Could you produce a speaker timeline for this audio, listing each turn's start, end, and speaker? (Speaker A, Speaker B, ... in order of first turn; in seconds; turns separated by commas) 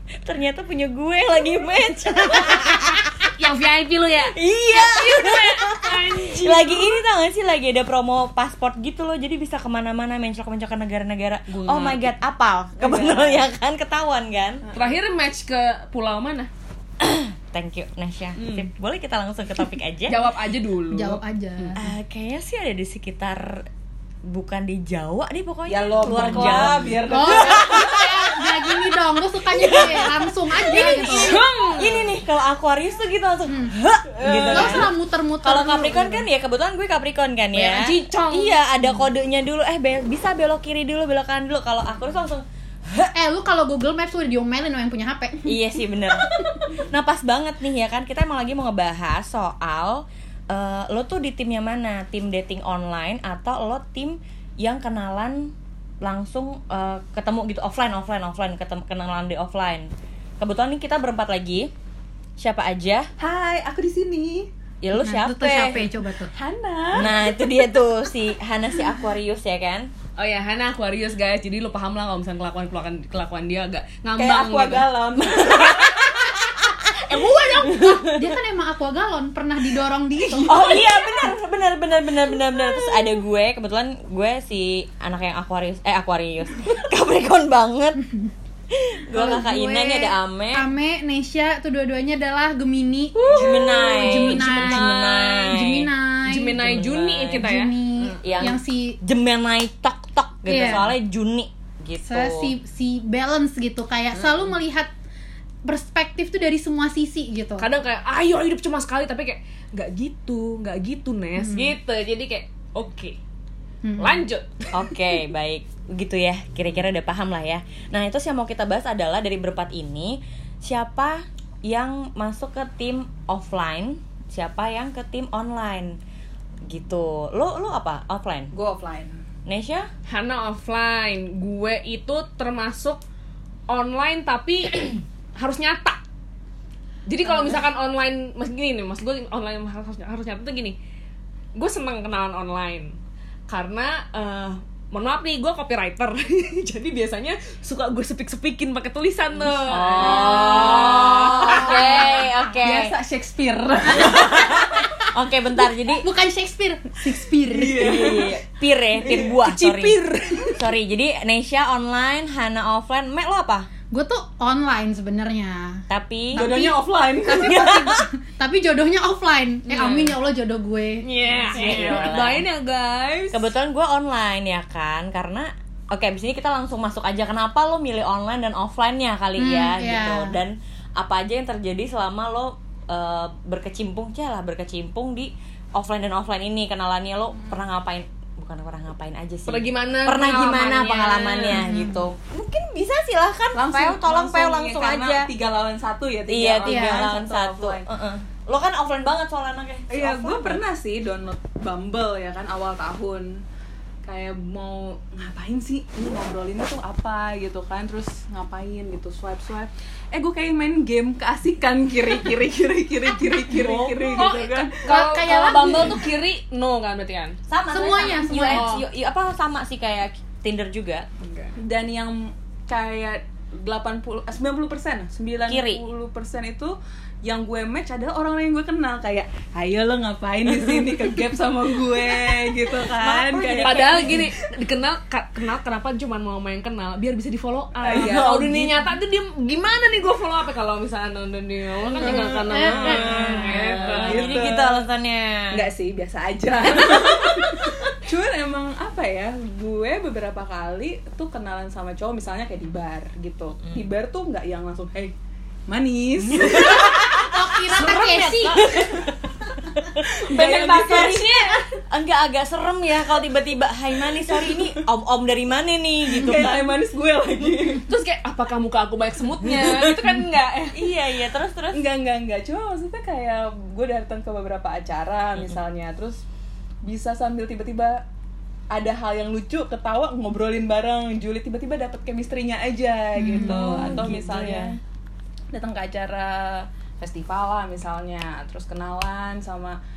Speaker A: 0.2-3.3, Speaker B: 3.3-7.0, Speaker A: 4.2-14.7, Speaker B: 11.5-12.1, Speaker C: 12.8-13.3, Speaker C: 14.6-15.0, Speaker B: 14.7-16.5, Speaker A: 17.0-20.2, Speaker B: 18.4-18.6, Speaker B: 20.1-21.8, Speaker D: 20.9-21.8, Speaker A: 21.8-23.6, Speaker A: 24.2-28.9, Speaker C: 25.7-27.9, Speaker B: 26.0-27.0, Speaker D: 27.1-31.3, Speaker A: 29.4-43.1, Speaker B: 30.9-32.2, Speaker D: 33.5-33.7, Speaker C: 34.2-34.9, Speaker D: 34.5-36.2, Speaker B: 37.5-38.6, Speaker D: 43.1-46.7, Speaker A: 45.5-59.9, Speaker A: 60.4-61.7, Speaker A: 62.4-63.1, Speaker C: 63.2-64.5, Speaker A: 64.8-65.8, Speaker D: 65.0-66.3, Speaker C: 66.3-67.3, Speaker A: 66.9-69.9, Speaker B: 70.2-74.9, Speaker C: 74.2-76.5, Speaker A: 75.7-76.0, Speaker B: 77.0-77.9, Speaker A: 77.6-78.3, Speaker D: 77.7-80.7, Speaker C: 80.2-80.9, Speaker A: 80.5-88.0, Speaker A: 88.7-90.7, Speaker D: 89.1-96.7, Speaker B: 93.2-94.9, Speaker A: 93.3-95.9, Speaker B: 96.3-98.2, Speaker A: 96.6-97.5, Speaker D: 97.3-99.0, Speaker A: 98.2-102.5, Speaker D: 100.5-100.9, Speaker D: 102.0-104.9, Speaker B: 104.2-104.5, Speaker D: 105.7-107.7, Speaker B: 107.6-113.2, Speaker D: 111.3-111.7, Speaker D: 113.8-114.2, Speaker B: 114.0-114.9, Speaker A: 114.7-126.0, Speaker A: 126.7-128.5, Speaker C: 128.5-129.2, Speaker A: 129.4-129.9, Speaker B: 130.1-133.0, Speaker B: 133.7-136.0, Speaker B: 137.1-140.8, Speaker B: 141.5-142.9, Speaker B: 143.5-152.3, Speaker A: 149.7-152.9, Speaker C: 149.7-155.1, Speaker A: 153.9-156.1, Speaker D: 155.9-158.2, Speaker C: 157.4-158.4, Speaker A: 157.7-163.7, Speaker C: 159.0-159.4, Speaker B: 159.1-160.6, Speaker D: 163.9-171.1, Speaker A: 165.9-166.5, Speaker C: 166.3-167.9, Speaker A: 167.3-168.1, Speaker A: 169.7-170.1, Speaker B: 171.0-173.4, Speaker A: 171.5-172.4, Speaker C: 171.5-172.1, Speaker A: 173.3-195.3, Speaker D: 179.4-180.3, Speaker B: 189.5-191.6, Speaker D: 191.5-192.1, Speaker C: 193.5-197.9, Speaker A: 196.3-200.6, Speaker D: 196.7-197.1, Speaker C: 199.9-203.4, Speaker C: 204.0-214.8, Speaker B: 213.5-217.3, Speaker D: 214.2-215.9, Speaker A: 217.5-221.1, Speaker D: 217.7-218.7, Speaker B: 218.0-218.8, Speaker B: 221.2-221.5, Speaker C: 221.6-234.4, Speaker A: 225.5-225.8, Speaker A: 232.6-234.3, Speaker B: 233.6-244.4, Speaker C: 237.8-238.4, Speaker A: 237.9-238.9, Speaker C: 241.9-244.8, Speaker A: 242.0-245.7, Speaker D: 242.5-243.0, Speaker C: 245.5-255.1, Speaker C: 255.7-259.1, Speaker A: 256.2-259.1, Speaker D: 256.5-258.7, Speaker A: 259.7-260.3, Speaker C: 260.1-261.3, Speaker B: 260.3-261.7, Speaker A: 261.9-266.7, Speaker C: 264.1-264.8, Speaker C: 266.0-267.9, Speaker B: 267.9-270.8, Speaker A: 269.4-270.1, Speaker A: 270.7-271.9, Speaker C: 271.7-276.2, Speaker C: 276.8-278.0, Speaker C: 278.7-284.8, Speaker D: 283.1-284.0, Speaker A: 283.3-284.7, Speaker C: 285.5-289.8